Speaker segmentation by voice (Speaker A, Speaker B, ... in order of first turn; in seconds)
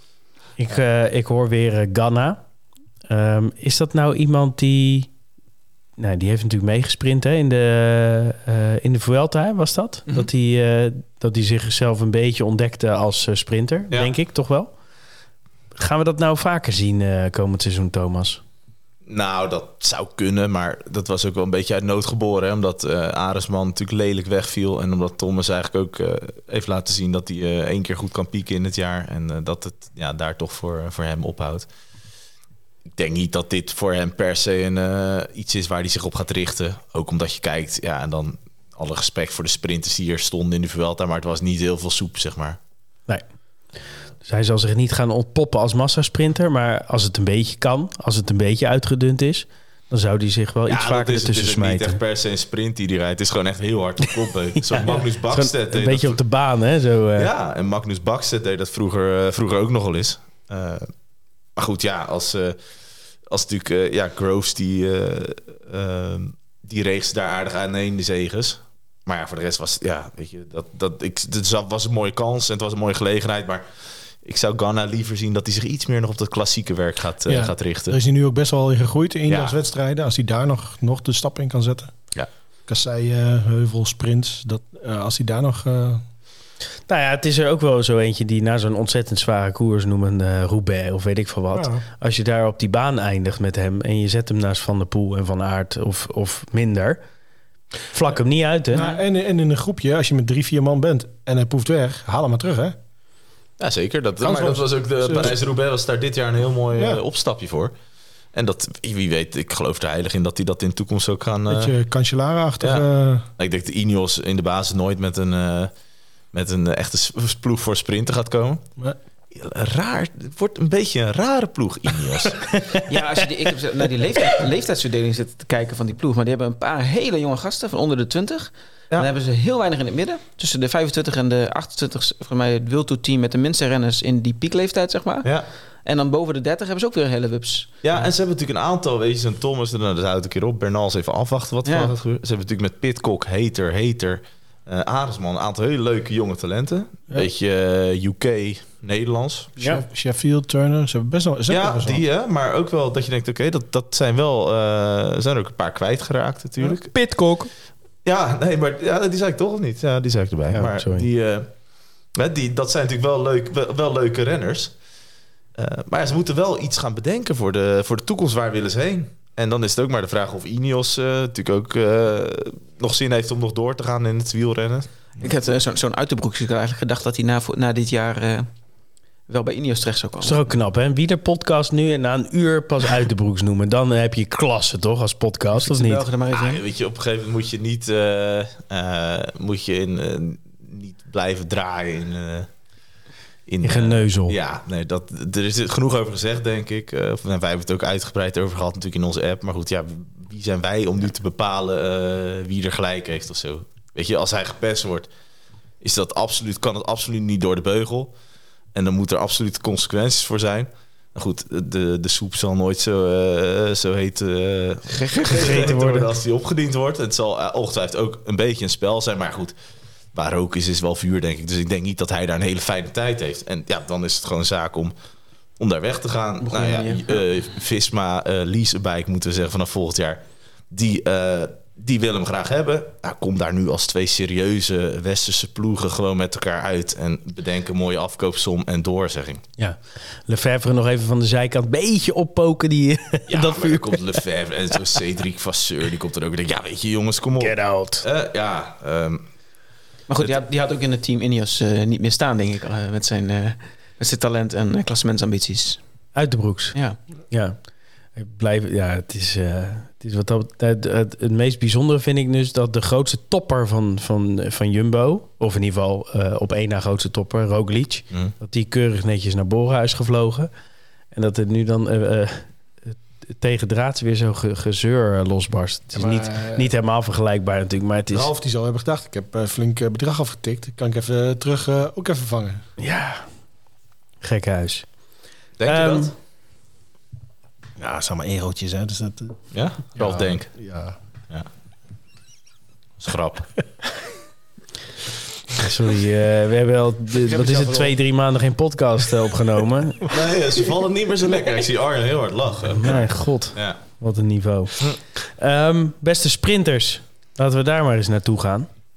Speaker A: 0.6-2.4, 3.1-5.1, 6.0-14.7, 15.7-18.4, 44.2-52.0, 54.6-57.3, 86.9-97.0, 97.9-98.9, 122.5-122.8, 149.6-149.8, 156.9-157.5, 160.5-161.1, 180.2-186.0, 193.6-194.4, 215.3-216.1, 239.6-244.2, 247.4-248.0, 256.1-270.5, 271.1-278.3, 282.8-283.3, 284.2-284.9, 285.6-286.1, 295.6-300.1, 302.7-308.7
Speaker B: 19.1-31.7, 32.9-42.6, 50.7-56.2, 57.1-60.9, 61.5-62.6, 63.3-78.0, 79.3-79.5, 103.6-107.7, 108.3-111.7, 112.6-115.7, 116.3-118.6, 119.3-122.5, 137.8-149.5, 151.5-156.9, 158.0-161.6, 162.1-164.8, 165.5-174.9, 186.3-192.5, 193.4-205.1, 205.8-208.2, 208.7-219.6, 220.1-224.9, 225.6-239.4, 243.3-249.3, 285.6-286.1, 289.5-290.6, 293.0-293.6, 297.4-297.9, 300.1-303.8
Speaker C: 77.2-86.0, 91.5-91.8, 98.7-102.8, 104.2-105.4, 106.7-107.0, 111.5-113.2, 149.6-152.0, 275.9-276.7, 278.1-282.6, 287.8-291.0
Speaker D: 122.8-137.7, 141.6-141.9, 175.2-178.5, 179.3-180.5, 185.5-186.6, 214.9-215.8, 226.4-227.2, 250.1-255.8, 256.7-257.0